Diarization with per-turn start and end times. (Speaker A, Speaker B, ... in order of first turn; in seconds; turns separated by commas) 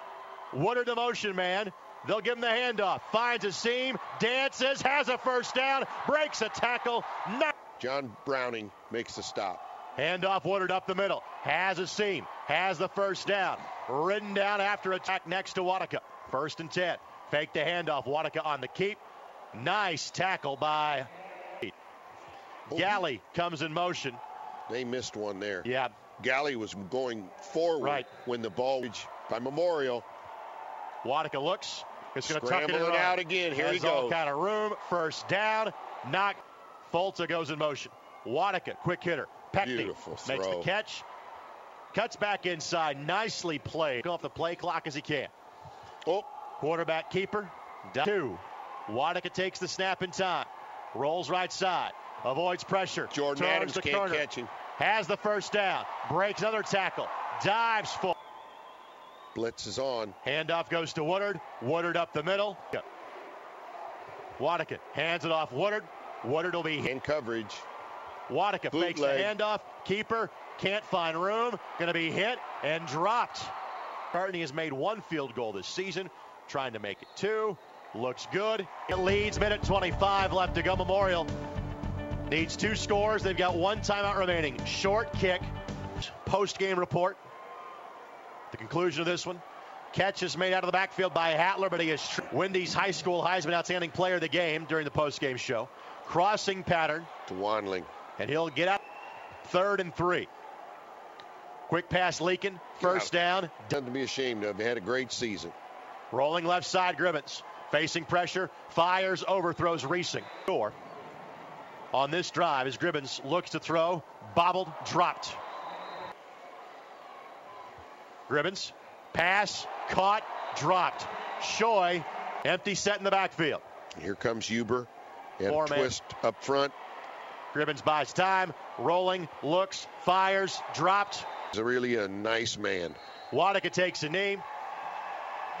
Speaker A: 0.5-7.5, Speaker B: 7.8-9.6, Speaker A: 10.0-19.0, Speaker A: 19.5-21.1, Speaker B: 22.7-23.0, Speaker A: 22.7-24.2, Speaker B: 24.7-25.7, Speaker A: 25.6-25.9, Speaker B: 26.2-30.0, Speaker A: 27.8-28.1, Speaker A: 31.0-41.0, Speaker B: 32.2-34.2, Speaker B: 39.6-40.7, Speaker A: 41.9-45.3, Speaker A: 46.6-54.2, Speaker B: 53.1-54.5, Speaker A: 54.8-58.1, Speaker B: 59.3-60.1, Speaker A: 60.2-62.8, Speaker A: 64.4-66.9, Speaker B: 66.8-67.7, Speaker A: 68.3-73.5, Speaker B: 68.7-69.3, Speaker A: 74.1-81.3, Speaker A: 82.3-87.2, Speaker A: 88.5-97.1, Speaker B: 97.3-97.9, Speaker A: 98.2-98.8, Speaker A: 99.4-100.3, Speaker A: 101.7-103.7, Speaker B: 102.8-103.1, Speaker B: 103.7-105.5, Speaker A: 106.1-110.7, Speaker A: 111.9-115.4, Speaker A: 118.3-123.6, Speaker B: 124.0-126.7, Speaker A: 125.5-125.9, Speaker A: 127.5-131.3, Speaker B: 131.5-133.0, Speaker A: 133.3-134.4